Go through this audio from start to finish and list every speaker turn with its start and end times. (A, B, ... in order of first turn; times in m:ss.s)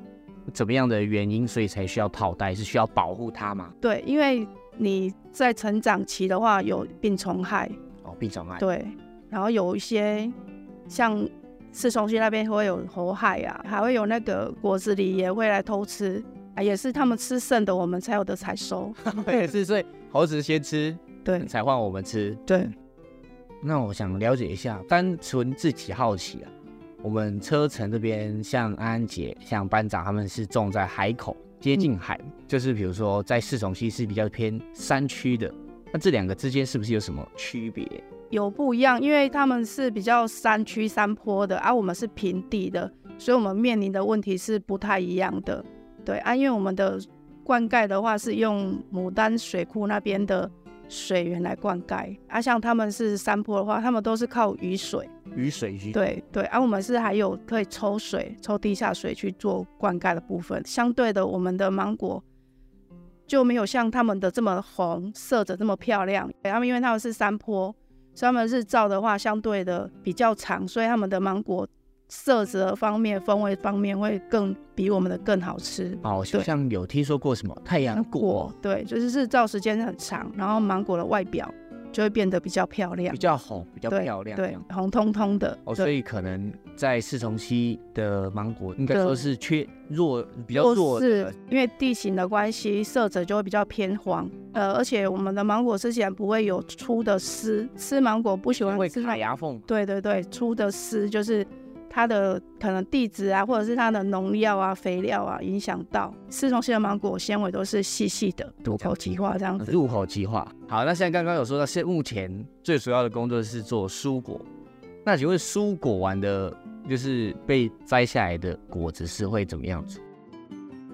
0:00.5-0:03.7 A
0:03.8-0:07.8 B
0:08.0-0:08.6 A
0:08.6-0:10.3 B
0:10.9-0:19.0 B
0:19.0-0:22.4 A
0:21.2-0:21.5 B
0:22.4-0:22.7 B
0:23.6-0:26.5 A
0:27.0-0:38.0 A
0:38.3-0:55.1 B
0:55.3-0:56.0 A
0:55.9-1:02.2 B
1:03.3-1:16.5 B
1:16.0-1:18.5 A
1:17.9-1:23.2 B
1:23.1-1:24.6 A
1:23.9-1:25.9 B
1:25.6-1:31.3 A
1:30.5-1:49.8 B
1:38.6-1:39.7 A
1:48.6-1:48.9 A
1:49.6-1:54.4 A
1:55.0-2:00.0 A